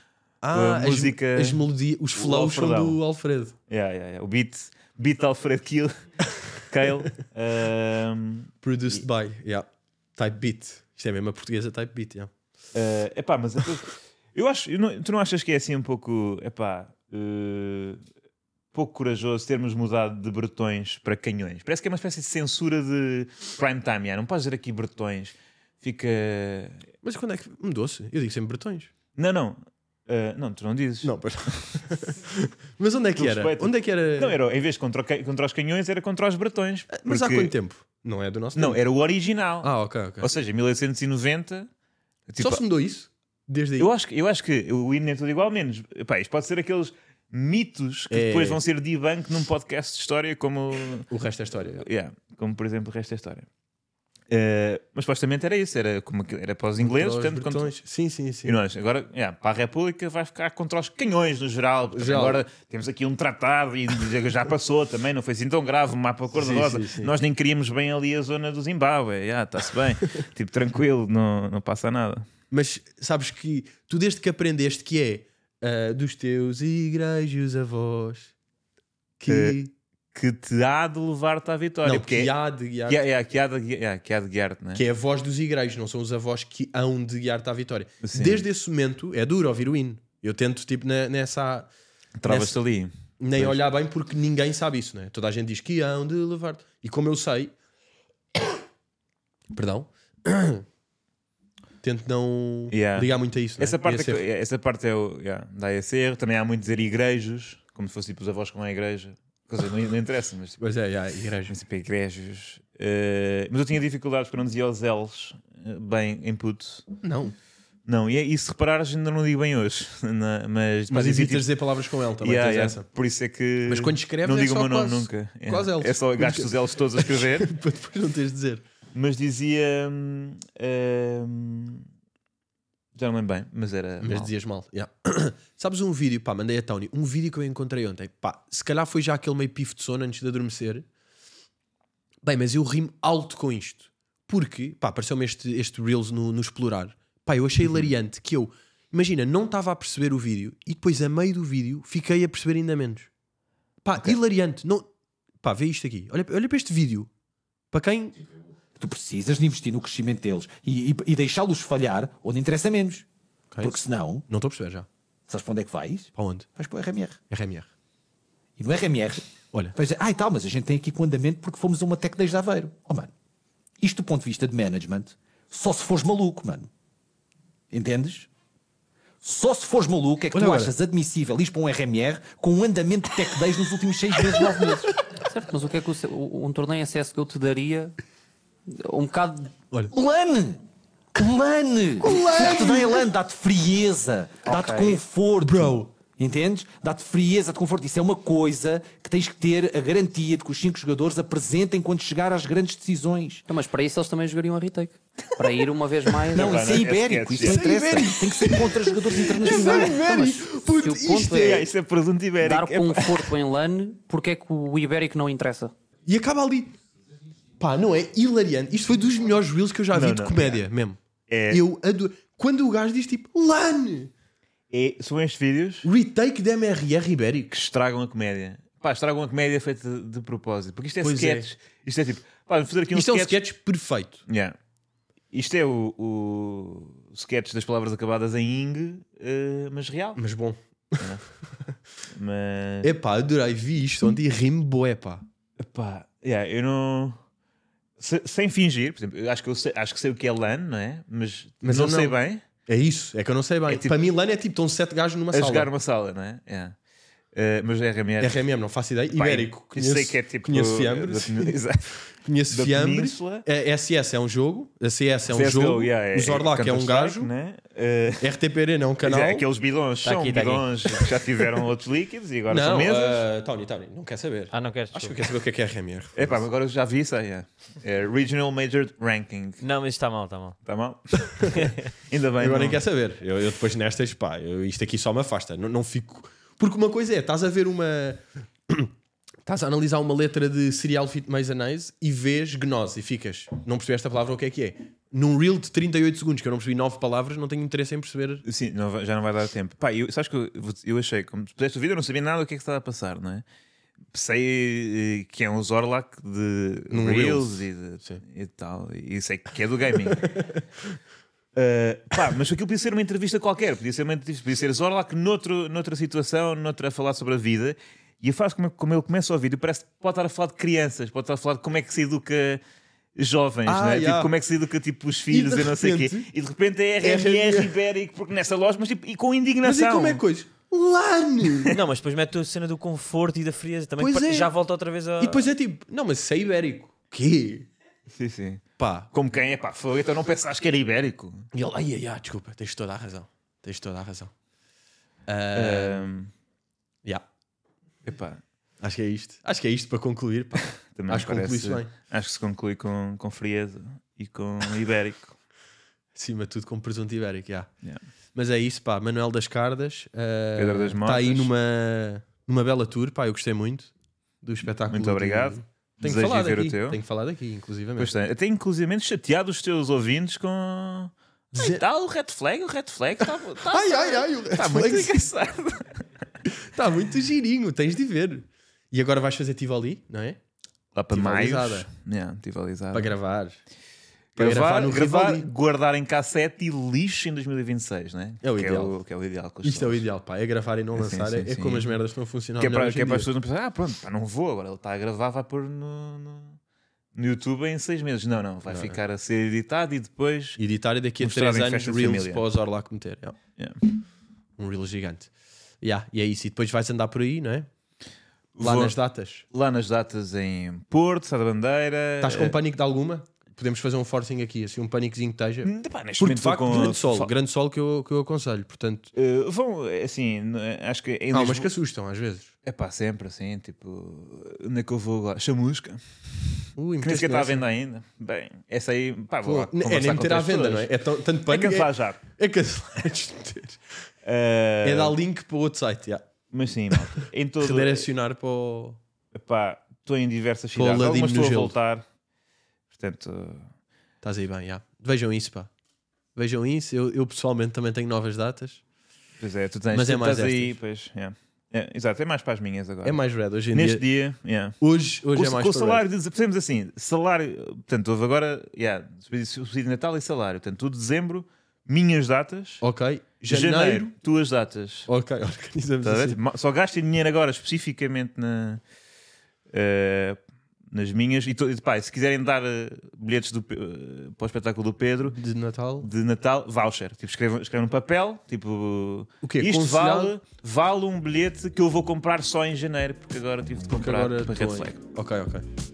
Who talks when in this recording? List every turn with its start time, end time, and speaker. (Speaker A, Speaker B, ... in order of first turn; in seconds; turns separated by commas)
Speaker A: 0.4-3.6, Speaker B: 0.5-1.6, Speaker B: 2.1-3.0, Speaker B: 3.7-9.0, Speaker A: 8.6-12.3, Speaker B: 12.7-18.0, Speaker B: 18.7-26.9, Speaker A: 27.0-28.9, Speaker B: 29.2-31.2, Speaker A: 31.0-34.4, Speaker B: 33.1-37.5, Speaker A: 36.9-38.8, Speaker B: 38.6-41.7, Speaker A: 39.6-40.3, Speaker B: 42.3-42.6, Speaker A: 42.4-43.9, Speaker B: 43.8-51.1, Speaker A: 48.1-48.6, Speaker A: 51.1-51.9, Speaker B: 51.8-53.5, Speaker B: 54.3-57.7, Speaker A: 56.8-58.6, Speaker B: 58.5-72.3, Speaker A: 61.9-62.4, Speaker A: 66.3-67.1, Speaker A: 72.5-78.3, Speaker A: 79.2-79.7, Speaker B: 79.3-79.6, Speaker B: 80.1-82.3, Speaker A: 81.8-83.0, Speaker B: 82.9-84.8, Speaker A: 84.8-91.7, Speaker B: 88.0-88.4, Speaker B: 92.2-93.6, Speaker A: 92.2-92.6, Speaker A: 93.2-97.5, Speaker A: 99.5-100.7, Speaker A: 101.8-104.2, Speaker B: 102.7-110.6, Speaker A: 110.6-111.5, Speaker B: 111.5-116.9, Speaker A: 117.0-117.3, Speaker B: 117.9-121.5, Speaker A: 120.9-122.9, Speaker B: 122.2-127.5, Speaker A: 123.7-128.6, Speaker B: 128.9-131.9, Speaker B: 132.9-134.3, Speaker A: 134.0-140.9, Speaker A: 142.2-153.1, Speaker A: 153.8-154.9, Speaker A: 155.4-157.1, Speaker A: 157.7-158.2, Speaker C: 158.8-163.1, Speaker A: 163.5-164.9, Speaker C: 163.6-164.2, Speaker C: 165.3-167.2, Speaker A: 166.2-166.5, Speaker A: 167.3-167.7, Speaker C: 168.6-173.1, Speaker C: 173.8-176.7, Speaker C: 177.7-178.3, Speaker C: 179.2-184.9, Speaker A: 180.3-180.7, Speaker D: 185.2-187.9, Speaker D: 188.7-189.6, Speaker C: 189.9-190.6, Speaker C: 191.2-203.4, Speaker A: 192.0-193.1, Speaker D: 194.4-195.0, Speaker A: 195.5-195.9, Speaker D: 203.5-206.8, Speaker B: 206.3-207.6, Speaker C: 206.3-210.1, Speaker A: 207.4-211.7, Speaker D: 209.4-211.7, Speaker B: 211.3-213.3, Speaker D: 212.4-215.7, Speaker A: 216.1-216.8, Speaker A: 217.6-224.1, Speaker B: 219.9-220.6, Speaker B: 221.3-221.6, Speaker B: 224.7-225.9, Speaker A: 225.8-227.5, Speaker B: 227.5-233.4, Speaker A: 231.0-231.5, Speaker A: 232.9-234.2, Speaker B: 234.3-234.6, Speaker B: 235.3-240.2, Speaker A: 240.2-241.7, Speaker B: 241.0-241.3, Speaker B: 242.1-242.9, Speaker A: 242.8-245.3, Speaker B: 245.6-247.2, Speaker B: 248.0-252.4, Speaker A: 251.6-255.7, Speaker B: 253.7-254.0, Speaker B: 255.3-256.8, Speaker B: 257.4-258.4, Speaker A: 258.2-267.3, Speaker B: 259.1-262.0, Speaker B: 262.5-263.4, Speaker B: 265.3-268.3, Speaker A: 268.2-269.5, Speaker B: 269.0-273.2, Speaker E: 270.0-271.1, Speaker A: 272.5-276.4, Speaker E: 274.5-275.2, Speaker B: 276.1-279.6, Speaker E: 279.6-280.6, Speaker B: 280.6-281.4, Speaker E: 281.5-281.9, Speaker B: 282.1-282.8, Speaker A: 282.4-288.9, Speaker A: 289.4-298.4, Speaker B: 298.4-303.4, Speaker B: 304.1-310.4, Speaker A: 306.9-308.2, Speaker A: 310.1-310.6, Speaker B: 311.6-322.6, Speaker B: 323.2-330.2, Speaker A: 323.7-324.3, Speaker A: 325.3-326.3, Speaker A: 327.0-327.8, Speaker A: 329.6-331.8, Speaker E: 331.7-335.5, Speaker A: 334.0-334.5, Speaker A: 335.2-337.7, Speaker B: 338.1-341.5, Speaker A: 338.8-339.1, Speaker A: 341.5-344.3, Speaker A: 345.3-346.1, Speaker B: 345.5-346.3, Speaker B: 348.1-348.4, Speaker A: 348.8-351.9, Speaker B: 350.9-355.4, Speaker A: 356.1-357.7, Speaker A: 358.4-368.1, Speaker B: 360.6-361.5, Speaker B: 364.9-367.0, Speaker B: 368.0-376.0, Speaker A: 371.6-371.8, Speaker A: 373.7-375.3, Speaker A: 376.5-380.4, Speaker B: 380.9-383.1, Speaker A: 381.1-381.9, Speaker A: 382.9-383.6, Speaker A: 384.4-385.5, Speaker B: 384.4-390.1, Speaker A: 388.4-389.0, Speaker A: 389.6-393.3, Speaker B: 390.9-391.9, Speaker B: 392.6-396.6, Speaker B: 397.1-400.6, Speaker A: 398.7-399.0, Speaker A: 400.6-403.4, Speaker B: 401.2-402.4, Speaker A: 404.6-405.3, Speaker A: 405.8-407.7, Speaker B: 408.6-409.0, Speaker A: 408.6-409.4, Speaker B: 409.5-412.6, Speaker A: 412.2-419.1, Speaker B: 415.6-417.3, Speaker B: 419.1-421.7, Speaker A: 421.3-422.5, Speaker B: 422.6-430.9, Speaker A: 426.8-427.6, Speaker A: 429.4-433.8, Speaker B: 431.5-432.2, Speaker B: 434.2-435.2, Speaker A: 434.8-436.3, Speaker B: 436.5-438.1, Speaker A: 436.9-439.0, Speaker B: 439.3-442.1, Speaker A: 440.8-441.8, Speaker B: 442.9-443.7, Speaker A: 444.2-445.7, Speaker A: 446.4-448.8, Speaker B: 449.4-453.2, Speaker A: 449.9-450.8, Speaker A: 453.0-454.0, Speaker B: 453.7-454.8, Speaker A: 454.8-456.1, Speaker B: 455.3-462.8, Speaker A: 462.8-464.1, Speaker B: 463.4-465.1, Speaker A: 465.1-466.4, Speaker B: 466.0-468.8, Speaker B: 469.7-470.4, Speaker B: 470.9-475.4, Speaker A: 475.4-476.1, Speaker B: 476.0-485.0, Speaker A: 479.4-480.4, Speaker A: 483.9-485.7